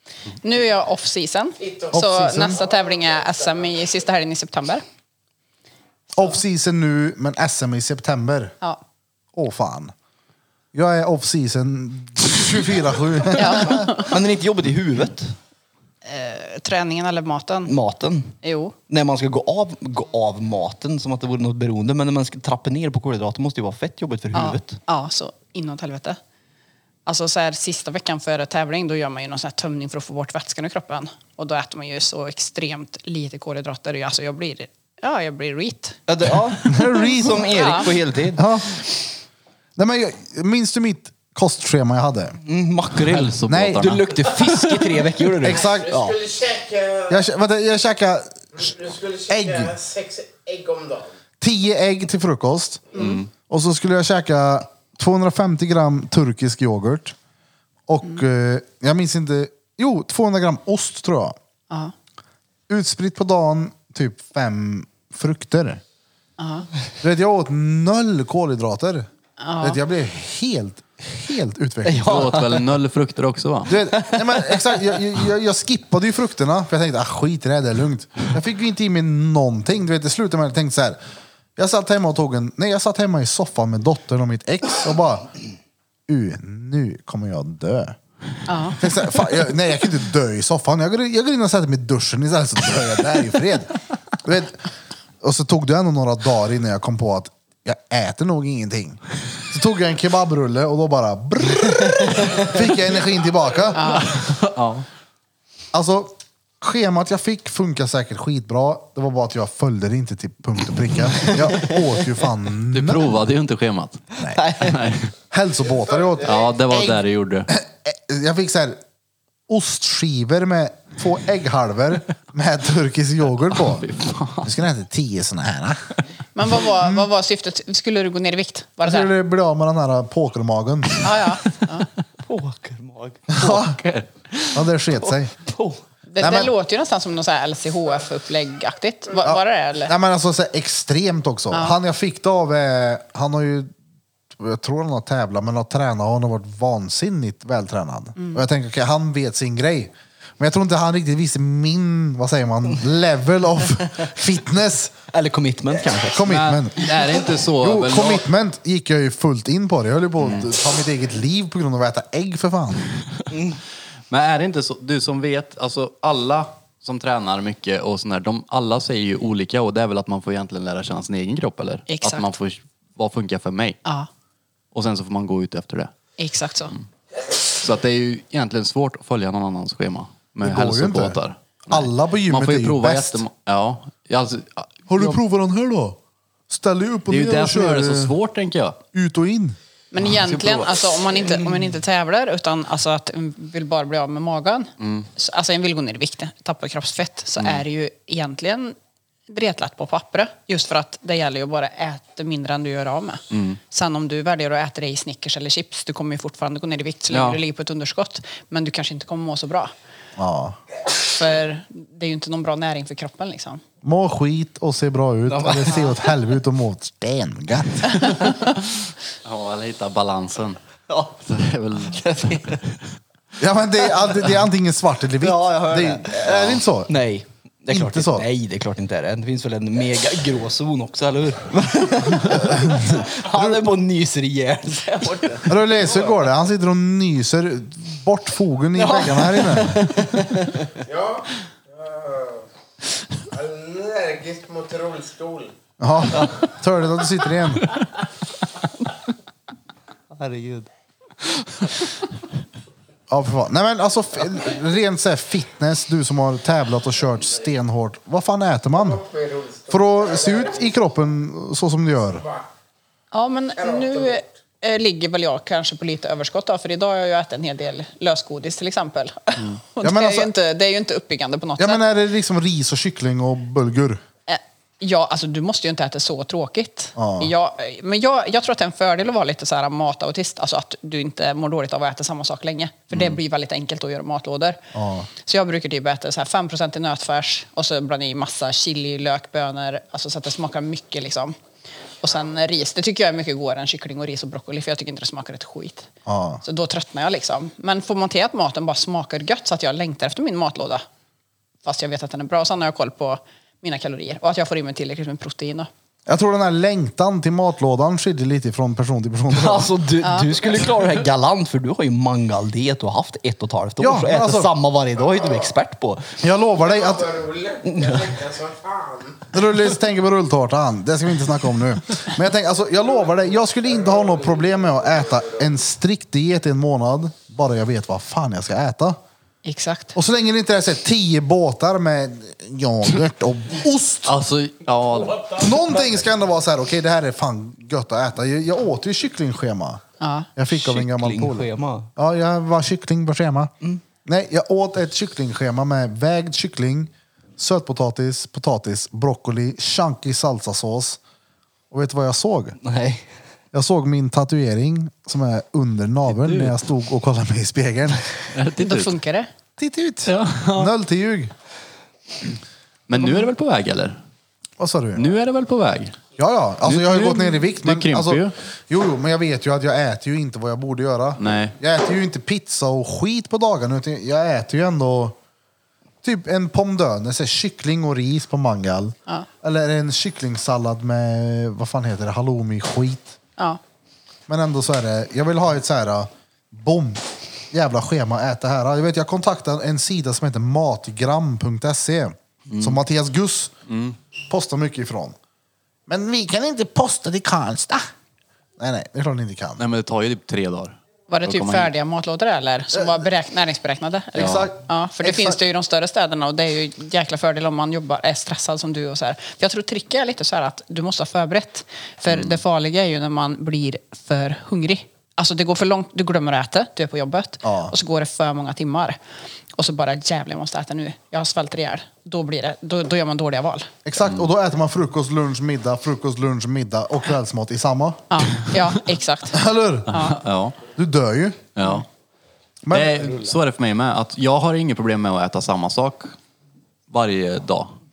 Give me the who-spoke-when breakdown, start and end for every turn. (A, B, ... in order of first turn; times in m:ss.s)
0:00.4-0:04.8 A
0:01.6-0:03.7 B
0:01.9-0:02.6 C
0:06.1-0:08.5 C
0:09.3-0:09.9 C
0:10.7-0:14.0 C
0:13.4-0:14.1 A
0:14.0-0:15.4 D
0:16.0-0:17.8 A
0:17.7-0:18.4 D
0:18.4-0:18.8 A
0:18.9-0:24.8 D
0:24.3-0:26.2 A
0:27.1-0:36.9 A
0:36.1-0:38.5 D
0:36.7-0:37.6 C
0:37.4-0:37.9 A
0:38.3-0:38.9 C
0:39.8-0:42.4 C
0:42.5-0:46.2 D
0:42.9-0:45.0 E
0:43.5-0:44.0 C
0:45.4-0:45.9 C
0:45.5-0:47.2 B
0:47.1-0:48.6 C
0:48.6-0:51.1 B
0:49.3-0:49.7 C
0:51.4-0:57.2 C
0:53.0-0:53.3 E
0:57.9-1:01.4 C
1:02.7-1:05.8 C
1:06.4-1:06.7 A
1:07.0-1:09.1 C
1:09.4-1:09.8 A
1:09.6-1:12.4 C
1:11.8-1:12.7 D
1:12.0-1:13.8 E
1:13.7-1:21.0 C
1:13.8-1:15.0 D
1:21.6-1:25.3 C
1:26.1-1:28.0 C
1:28.5-1:28.8 A
1:28.8-1:33.7 C
1:34.2-1:34.6 C
1:35.2-1:44.0 C
1:42.0-1:42.5 D
1:43.8-1:44.1 A
1:44.1-1:44.8 E
1:45.7-1:53.2 C
1:51.3-1:51.8 D
1:52.7-1:55.1 E
1:54.2-1:54.4 C
1:54.3-1:54.8 D
1:55.3-1:58.8 C
1:55.8-1:56.5 B
1:56.2-1:57.5 E
1:59.5-2:03.9 C
2:03.6-2:04.6 E
2:04.4-2:06.0 C
2:06.4-2:09.1 A
2:06.6-2:07.1 C
2:08.8-2:11.0 C
2:11.0-2:11.9 A
2:12.2-2:13.3 D
2:13.3-2:13.8 C
2:13.4-2:14.7 E
2:14.5-2:15.3 C
2:15.1-2:15.8 D
2:16.1-2:19.9 A
2:16.2-2:16.5 C
2:19.2-2:23.7 C
2:24.3-2:34.9 C
2:28.2-2:28.4 A
2:35.1-2:36.3 D
2:36.1-2:37.1 C
2:36.2-2:38.2 E
2:37.6-2:42.9 C
2:40.2-2:40.5 E
2:43.3-2:43.6 D
2:44.1-2:53.8 E
2:51.9-2:52.3 A
2:54.7-2:55.9 E
2:56.2-2:56.7 A
2:57.5-3:05.2 E
3:00.4-3:01.2 C
3:01.7-3:03.2 C
3:04.9-3:06.0 C
3:06.5-3:08.1 C
3:07.1-3:08.8 E
3:08.9-3:09.6 C
3:09.9-3:18.8 A
3:10.0-3:10.8 E
3:14.8-3:15.1 E
3:19.3-3:29.7 A
3:23.3-3:23.6 E
3:27.1-3:27.4 E
3:30.2-3:30.6 C
3:31.0-3:33.6 A
3:33.8-3:38.2 C
3:35.3-3:36.0 D
3:39.2-3:40.6 E
3:40.9-3:41.2 D
3:41.2-3:42.6 E
3:41.9-3:42.6 D
3:43.4-3:46.9 C
3:45.2-3:56.2 D
3:47.7-3:48.3 C
3:52.2-3:53.6 C
3:55.4-3:59.9 C
3:58.8-4:00.7 D
4:00.9-4:02.4 B
4:03.3-4:05.5 B
4:05.8-4:07.7 C
4:10.1-4:10.7 D
4:13.1-4:19.0 C
4:18.8-4:20.8 B
4:19.7-4:22.2 C
4:23.1-4:31.8 A
4:23.6-4:24.2 B
4:29.8-4:30.3 C
4:31.6-4:34.0 C
4:34.3-4:44.7 A
4:37.0-4:37.3 C
4:42.9-4:43.2 E
4:44.7-4:45.1 C
4:45.2-4:51.4 A
4:52.0-4:55.9 A
4:56.1-4:56.4 C
4:56.4-5:00.8 A
5:01.6-5:05.7 A
5:06.1-5:09.7 C
5:09.3-5:16.2 D
5:10.0-5:10.3 A
5:13.8-5:14.5 C
5:16.2-5:17.1 C
5:16.6-5:19.3 B
5:17.7-5:18.1 D
5:19.3-5:29.0 C
5:23.8-5:25.4 B
5:29.4-5:30.0 A
5:30.0-5:34.2 C
5:34.1-5:35.6 E
5:35.3-5:39.8 C
5:40.0-5:40.3 A
5:40.4-5:43.5 C
5:40.5-5:41.9 D
5:44.0-5:51.0 C
5:51.7-5:52.6 C
5:52.6-5:53.1 D
5:53.5-5:58.1 C
5:56.1-5:56.5 E
5:58.3-5:58.9 E
5:58.6-5:59.3 A
5:59.6-6:01.3 C
6:00.1-6:00.7 E
6:02.9-6:04.0 E
6:04.6-6:05.0 C
6:05.0-6:06.0 E
6:06.2-6:15.2 C
6:06.6-6:08.3 E
6:11.2-6:11.6 E
6:16.0-6:23.2 C
6:24.3-6:33.5 C
6:32.5-6:32.8 E
6:33.7-6:34.0 E
6:34.3-6:35.2 C
6:35.9-6:37.9 C
6:38.6-6:39.6 C
6:39.6-6:41.7 E
6:41.1-6:59.0 A
6:42.7-6:43.0 C
6:44.2-6:45.4 C
6:44.2-6:44.5 E
6:57.4-6:57.7 C
6:59.6-7:03.7 A
7:03.8-7:08.2 C
7:04.0-7:04.3 E
7:08.1-7:10.2 A
7:09.3-7:09.9 C
7:09.9-7:10.6 E
7:10.8-7:11.5 C
7:11.6-7:11.9 E
7:12.7-7:13.4 C
7:12.7-7:16.2 E
7:16.9-7:17.7 E